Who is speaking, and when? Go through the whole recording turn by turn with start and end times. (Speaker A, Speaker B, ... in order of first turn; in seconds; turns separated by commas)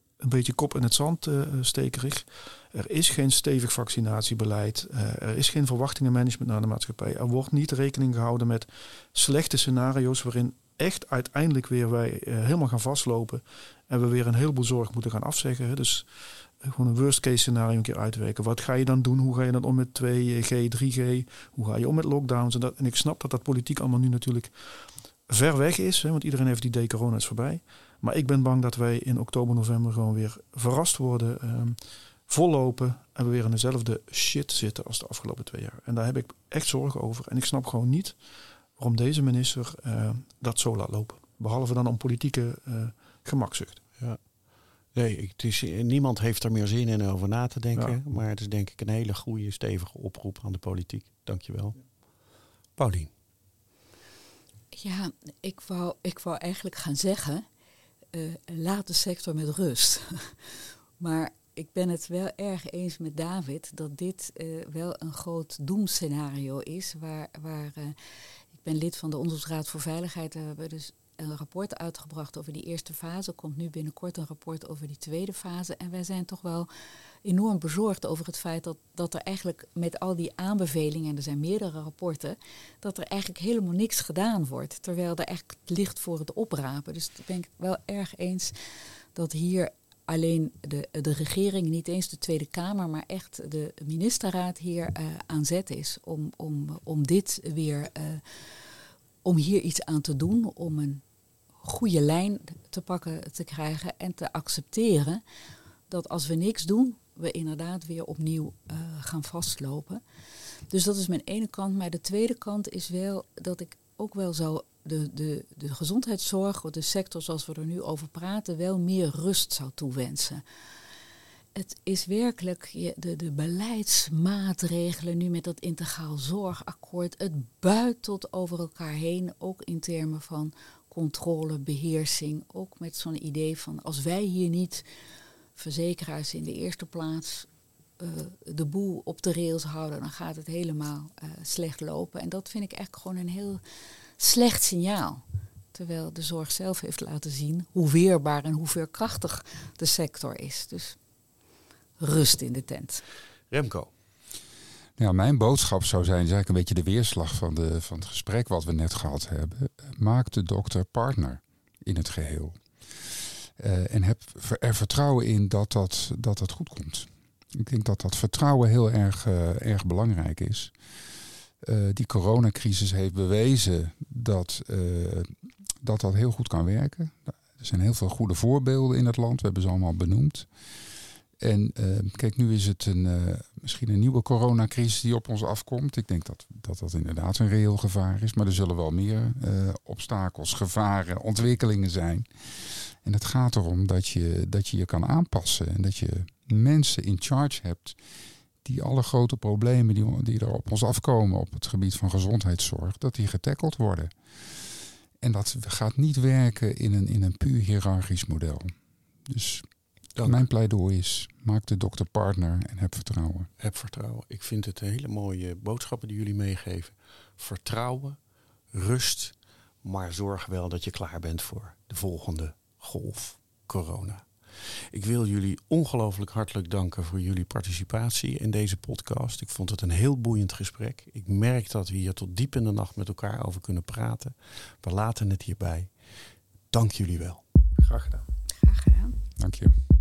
Speaker A: 0.2-38.2, Speaker A: 38.7-43.8, Speaker B: 44.0-44.3, Speaker B: 44.9-51.8, Speaker B: 52.8-53.1, Speaker C: 54.7-57.4, Speaker C: 58.1-68.0, Speaker C: 68.5-76.7, Speaker C: 77.2-88.5, Speaker C: 89.1-98.4, Speaker C: 99.2-101.0, Speaker C: 101.6-105.2, Speaker C: 105.9-110.0, Speaker C: 110.7-120.4, Speaker C: 121.5-134.8, Speaker C: 135.6-137.5, Speaker C: 138.0-143.6, Speaker C: 144.2-145.2, Speaker C: 145.7-151.0, Speaker C: 152.0-153.0, Speaker B: 153.5-153.9, Speaker D: 155.0-170.7, Speaker D: 171.6-180.5, Speaker D: 181.4-198.0, Speaker D: 198.6-208.7, Speaker D: 209.2-209.6, Speaker B: 210.2-210.4, Speaker D: 210.2-213.5, Speaker B: 213.6-237.4, Speaker A: 237.8-238.2, Speaker C: 238.6-239.2, Speaker D: 239.4-239.7